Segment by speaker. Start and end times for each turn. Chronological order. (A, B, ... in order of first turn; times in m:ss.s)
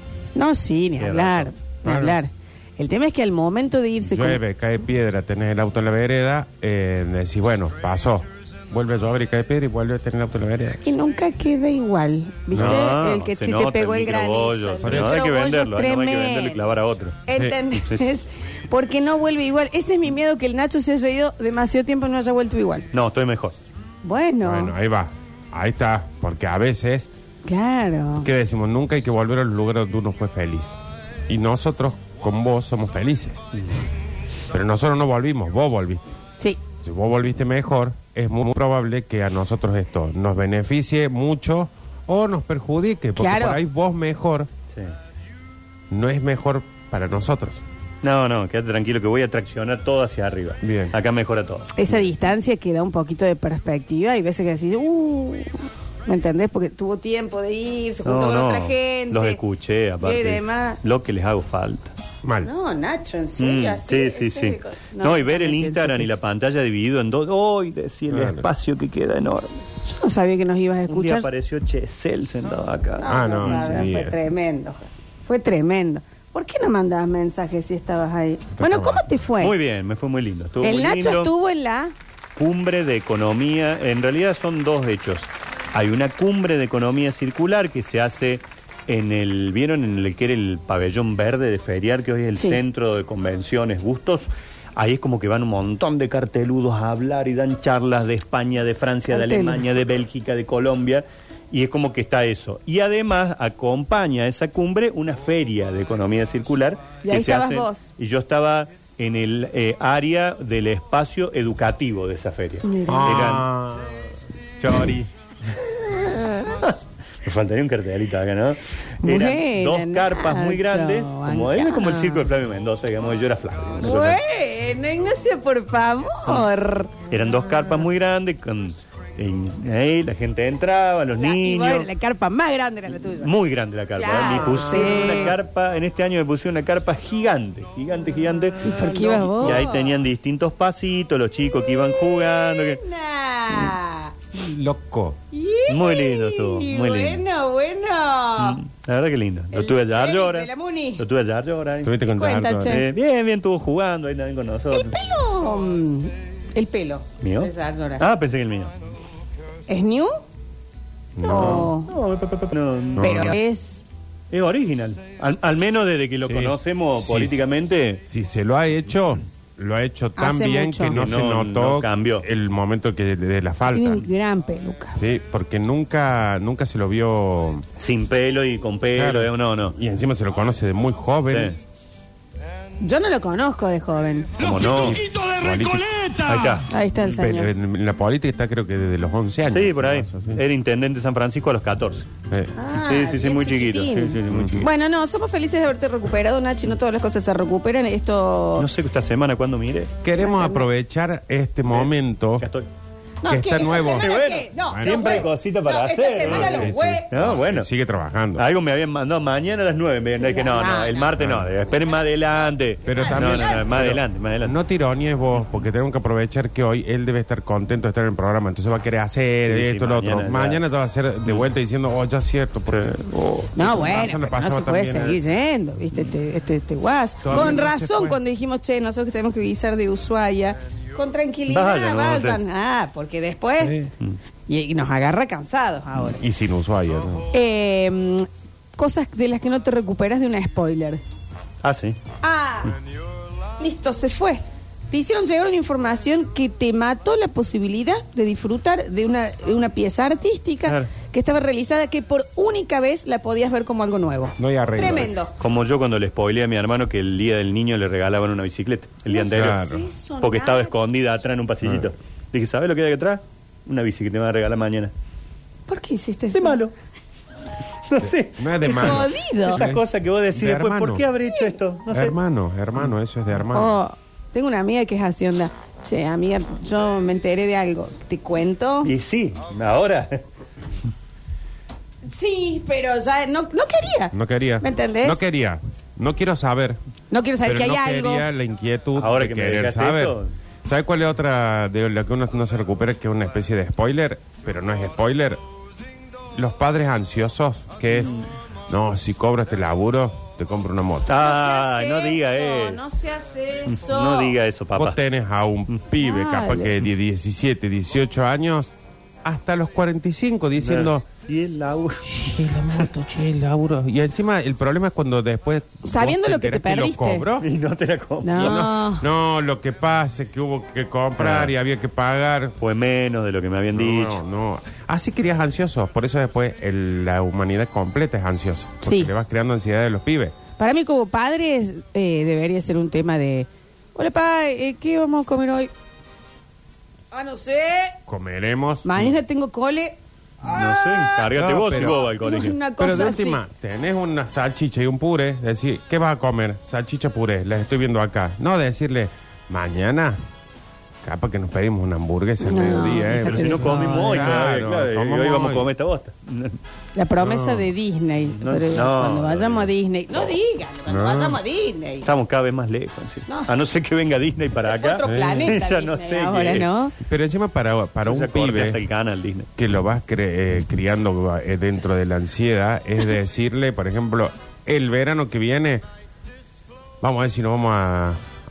0:00.4-0:04.4 A
0:01.0-0:01.5 B
0:01.8-0:02.2 C
0:04.0-0:10.8 C
0:10.8-0:16.6 A
0:12.5-0:12.9 C
0:12.5-0:17.2 B
0:14.8-0:15.2 C
0:17.3-0:22.9 A
0:17.4-0:17.6 C
0:17.8-0:18.1 B
0:22.9-0:23.6 B
0:24.0-0:24.8 A
0:24.4-0:27.1 C
0:27.4-0:28.3 A
0:28.2-0:30.7 C
0:31.3-0:33.4 C
0:34.5-0:36.0 C
0:36.8-0:44.5 C
0:43.2-0:43.6 A
0:45.9-0:47.6 C
0:48.0-0:51.8 B
0:50.6-0:51.0 C
0:51.8-0:59.4 A
0:58.0-1:01.9 B
1:00.0-1:00.8 A
1:02.2-1:02.5 C
1:02.4-1:06.2 A
1:03.4-1:09.6 B
1:08.1-1:08.5 C
1:09.9-1:11.3 A
1:10.9-1:13.8 B
1:13.0-1:19.6 A
1:13.1-1:14.2 C
1:18.6-1:19.0 C
1:19.4-1:21.3 B
1:20.6-1:21.9 A
1:22.4-1:53.5 B
1:39.1-1:39.6 A
1:47.0-1:47.9 A
1:52.6-1:53.4 A
1:52.9-1:53.9 C
1:54.6-1:55.1 C
1:55.5-1:56.5 A
1:56.6-2:04.2 B
1:59.0-2:02.3 A
2:03.8-2:07.0 A
2:07.1-2:11.9 B
2:11.1-2:13.3 A
2:13.2-2:22.8 B
2:13.9-2:15.4 A
2:14.2-2:15.3 C
2:18.6-2:20.0 A
2:19.0-2:19.7 C
2:21.6-2:24.2 A
2:24.3-2:25.2 C
2:25.3-2:28.6 A
2:25.7-2:27.2 B
2:28.4-2:31.9 B
2:29.5-2:31.0 A
2:31.8-2:32.8 C
2:32.2-2:32.9 A
2:32.6-2:35.1 B
2:34.7-2:38.0 A
2:37.2-2:38.7 B
2:39.7-2:40.1 A
2:41.2-2:41.7 C
2:41.2-2:42.0 A
2:41.3-2:43.4 B
2:43.0-2:43.8 A
2:43.0-2:43.4 C
2:44.3-2:48.0 B
2:46.2-2:47.4 C
2:48.1-2:54.1 C
2:50.2-2:51.0 A
2:50.9-2:52.3 B
2:53.6-2:55.0 A
2:55.0-2:57.6 C
2:57.8-2:59.8 B
2:58.9-3:01.6 C
3:01.3-3:01.6 B
3:02.8-3:04.7 A
3:04.4-3:05.0 B
3:04.7-3:06.1 C
3:06.2-3:06.7 B
3:06.6-3:07.5 A
3:07.1-3:10.4 C
3:09.5-3:12.1 B
3:12.6-3:18.7 A
3:12.8-3:14.7 B
3:14.3-3:14.7 C
3:18.6-3:19.9 B
3:20.0-3:22.5 C
3:20.2-3:20.7 A
3:21.7-3:22.7 B
3:23.2-3:27.4 A
3:23.3-3:25.3 C
3:23.7-3:27.7 B
3:26.2-3:28.4 C
3:28.4-3:34.6 B
3:30.2-3:31.1 A
3:31.2-3:31.5 C
3:32.9-3:43.0 C
3:32.9-3:33.7 A
3:39.5-3:40.6 B
3:41.2-3:41.5 B
3:42.7-3:43.6 B
3:43.5-3:45.2 C
3:43.6-3:53.8 A
3:47.2-3:48.2 C
3:47.3-3:47.6 B
3:51.5-3:52.4 B
3:53.7-3:54.2 B
3:54.5-3:56.3 A
3:56.2-3:57.3 C
3:57.3-4:01.0 A
4:01.6-4:02.0 B
4:02.2-4:02.8 A
4:03.6-4:15.3 A
4:10.7-4:10.9 B
4:14.4-4:15.1 C
4:15.4-4:19.6 B
4:19.1-4:20.8 A
4:19.3-4:19.9 C
4:20.2-4:24.9 B
4:21.6-4:21.9 C
4:25.7-4:26.6 A
4:26.3-4:26.7 B
4:27.9-4:32.2 B
4:28.0-4:31.1 C
4:28.6-4:29.7 A
4:31.3-4:31.6 A
4:31.9-4:33.8 C
4:33.5-4:38.9 A
4:38.8-4:40.2 B
4:42.0-4:45.2 A
4:44.1-4:46.8 C
4:47.1-4:48.3 A
4:47.4-4:55.4 C
4:48.9-4:50.3 B
4:56.4-4:58.1 C
4:57.9-4:58.2 B
4:58.7-5:01.2 C
5:01.1-5:02.8 B
5:01.1-5:04.4 A
5:03.7-5:05.0 B
5:04.8-5:08.7 C
5:06.0-5:06.8 A
5:09.2-5:11.1 C
5:10.6-5:12.9 B
5:12.1-5:17.5 C
5:15.8-5:17.3 A
5:17.4-5:18.6 B
5:18.2-5:19.1 A
5:18.3-5:22.6 C
5:21.2-5:21.5 B
5:22.6-5:24.2 B
5:23.8-5:30.4 C
5:28.8-5:29.1 A
5:30.6-5:35.7 A
5:37.1-5:38.0 A
5:38.1-5:39.1 C
5:38.8-5:43.4 A
5:40.5-5:42.6 B
5:41.3-5:42.0 C
5:42.8-5:50.2 C
5:51.0-5:55.7 C
5:52.4-5:54.1 A
5:53.1-5:56.6 B
5:57.0-6:02.1 A
5:57.2-5:57.7 C
5:58.3-6:00.3 B
6:00.9-6:01.4 C
6:02.0-6:06.7 B
6:03.3-6:03.5 A
6:04.6-6:07.0 A
6:05.0-6:05.6 C
6:07.0-6:08.8 C
6:08.1-6:09.5 B
6:09.6-6:15.8 C
6:17.0-6:18.2 C